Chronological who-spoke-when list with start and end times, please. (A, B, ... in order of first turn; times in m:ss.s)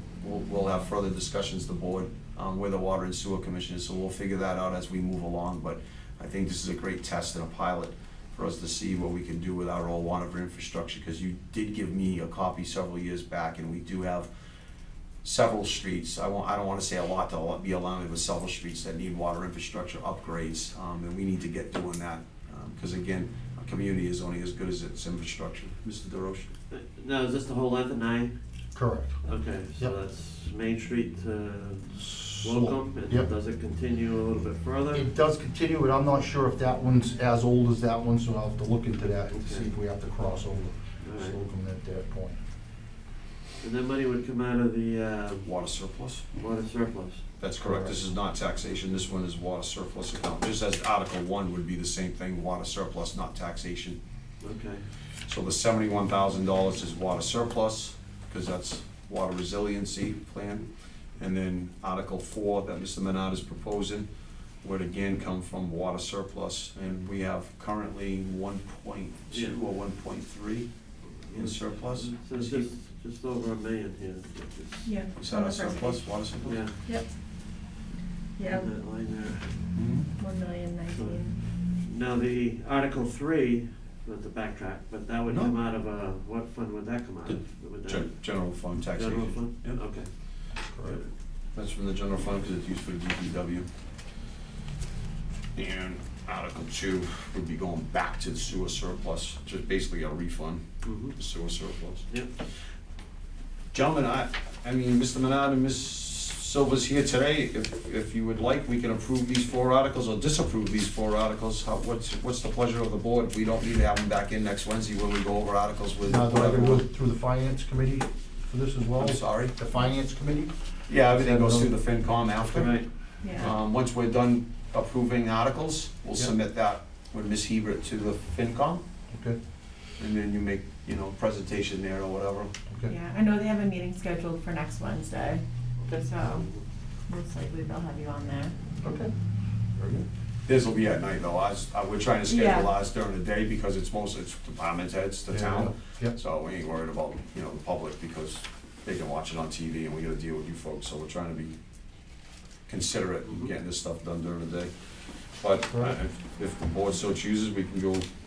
0:00.2-0:14.3 A
0:15.2-0:26.5 A
0:26.7-0:28.3 B
0:28.7-0:29.2 C
0:29.2-0:35.1 B
0:32.1-0:33.3 C
0:34.9-0:42.4 C
0:39.3-0:39.7 B
0:41.0-0:41.4 B
0:43.6-0:45.5 B
0:45.4-0:46.2 A
0:46.3-0:47.3 B
0:47.4-0:54.0 A
0:47.6-0:48.0 C
0:54.4-0:54.8 B
0:55.3-1:04.1 A
1:04.6-1:10.7 A
1:09.3-1:09.6 B
1:11.2-1:15.0 B
1:11.3-1:12.7 A
1:14.8-1:17.1 D
1:15.2-1:16.6 A
1:16.4-1:16.8 B
1:18.4-1:18.7 D
1:18.5-1:19.6 B
1:19.7-1:20.1 A
1:20.2-1:21.4 D
1:20.9-1:30.1 B
1:25.3-1:25.6 A
1:27.3-1:29.8 A
1:30.7-1:31.0 C
1:30.8-1:31.1 B
1:31.5-1:33.7 A
1:35.6-1:40.6 A
1:40.8-1:41.2 B
1:41.2-1:42.1 A
1:43.7-1:56.8 A
1:56.0-2:01.8 C
1:59.0-1:59.5 A
2:00.9-2:08.8 A
2:02.4-2:02.7 C
2:02.5-2:02.9 B
2:03.2-2:03.5 D
2:09.1-2:09.4 C
2:10.0-2:12.5 A
2:12.7-2:12.9 C
2:12.9-2:16.5 D
2:15.8-2:16.6 B
2:17.1-2:18.5 D
2:18.8-2:19.1 C
2:19.8-2:20.1 C
2:20.5-2:31.6 A
2:22.3-2:22.7 D
2:25.3-2:26.2 C
2:32.7-2:34.7 A
2:33.2-2:33.5 B
2:35.4-2:38.1 A
2:35.7-2:36.0 C